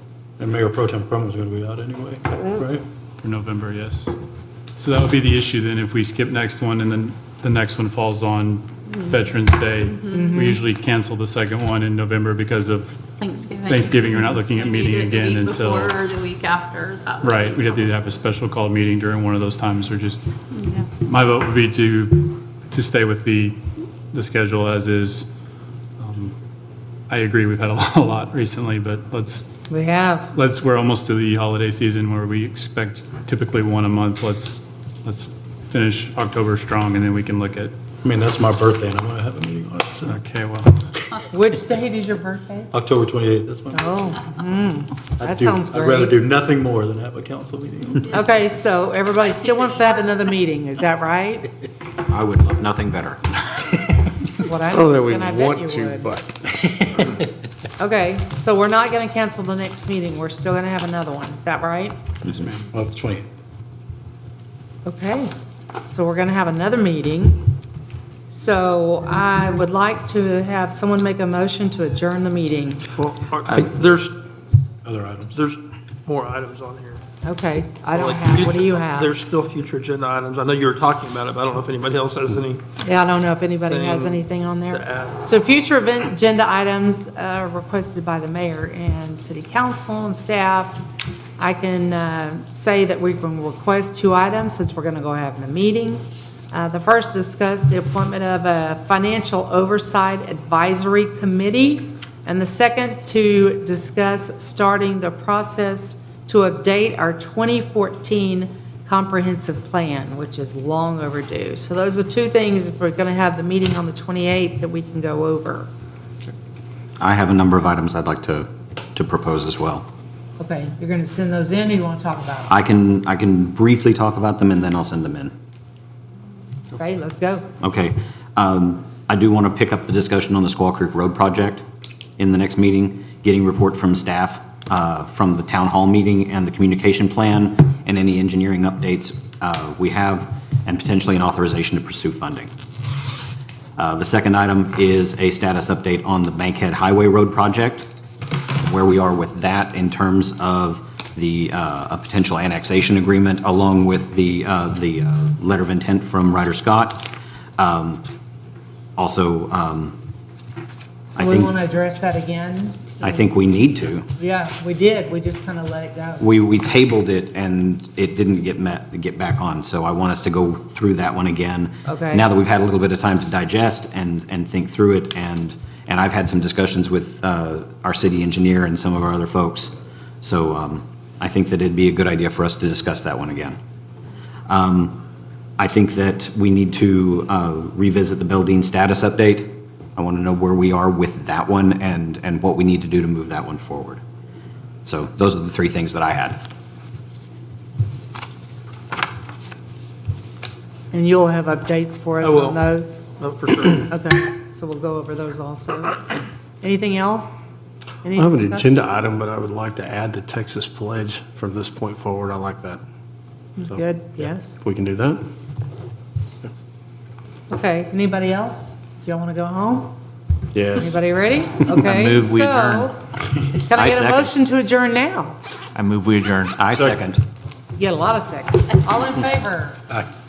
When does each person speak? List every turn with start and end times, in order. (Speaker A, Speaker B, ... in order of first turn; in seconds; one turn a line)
Speaker A: 0.4-2.8
Speaker B: 3.2-4.1
Speaker B: 4.8-13.0
Speaker C: 8.9-9.3
Speaker C: 9.9-10.5
Speaker D: 10.1-10.6
Speaker C: 13.2-17.8
Speaker B: 13.6-16.0
Speaker B: 17.2-20.3
Speaker C: 20.5-20.9
Speaker B: 20.9-23.6
Speaker B: 24.1-25.2
Speaker B: 26.0-26.3
Speaker B: 27.1-29.5
Speaker D: 29.7-30.3
Speaker B: 30.3-37.7
Speaker A: 38.0-40.2
Speaker B: 40.1-40.8
Speaker D: 41.3-42.7
Speaker A: 42.7-44.1
Speaker D: 43.7-46.2
Speaker A: 45.2-48.2
Speaker D: 48.1-51.5
Speaker E: 52.0-53.2
Speaker D: 54.3-56.2
Speaker A: 56.6-57.1
Speaker D: 57.8-61.9
Speaker A: 62.7-63.2
Speaker D: 64.8-65.3
Speaker D: 65.8-67.4
Speaker D: 68.3-72.9
Speaker F: 73.0-74.2
Speaker A: 74.8-75.4
Speaker F: 75.3-77.0
Speaker D: 77.2-79.1
Speaker F: 77.9-82.6
Speaker D: 82.8-90.8
Speaker F: 83.7-85.1
Speaker D: 91.4-115.7
Speaker E: 117.0-119.9
Speaker D: 120.4-122.5
Speaker E: 122.5-125.3
Speaker D: 126.7-127.4
Speaker E: 127.6-131.6
Speaker E: 132.2-142.5
Speaker E: 143.8-147.9
Speaker E: 148.6-158.0
Speaker E: 159.0-160.0
Speaker D: 161.1-163.2
Speaker E: 161.1-161.5
Speaker E: 163.0-164.1
Speaker D: 164.2-166.2
Speaker E: 166.2-183.6
Speaker D: 171.8-172.2
Speaker E: 184.5-185.0
Speaker E: 185.6-194.0
Speaker E: 194.8-196.4
Speaker D: 200.9-203.0
Speaker F: 202.2-202.6
Speaker F: 203.2-203.9
Speaker D: 203.9-206.0
Speaker D: 206.6-207.4
Speaker D: 208.0-208.7
Speaker G: 208.1-212.8
Speaker D: 213.6-214.6
Speaker G: 213.6-215.2
Speaker D: 217.5-219.9
Speaker G: 220.5-221.0
Speaker D: 220.8-223.0
Speaker H: 221.8-222.9
Speaker D: 223.5-225.4
Speaker E: 223.7-224.3
Speaker H: 225.7-226.9
Speaker E: 226.5-227.2
Speaker D: 227.8-229.8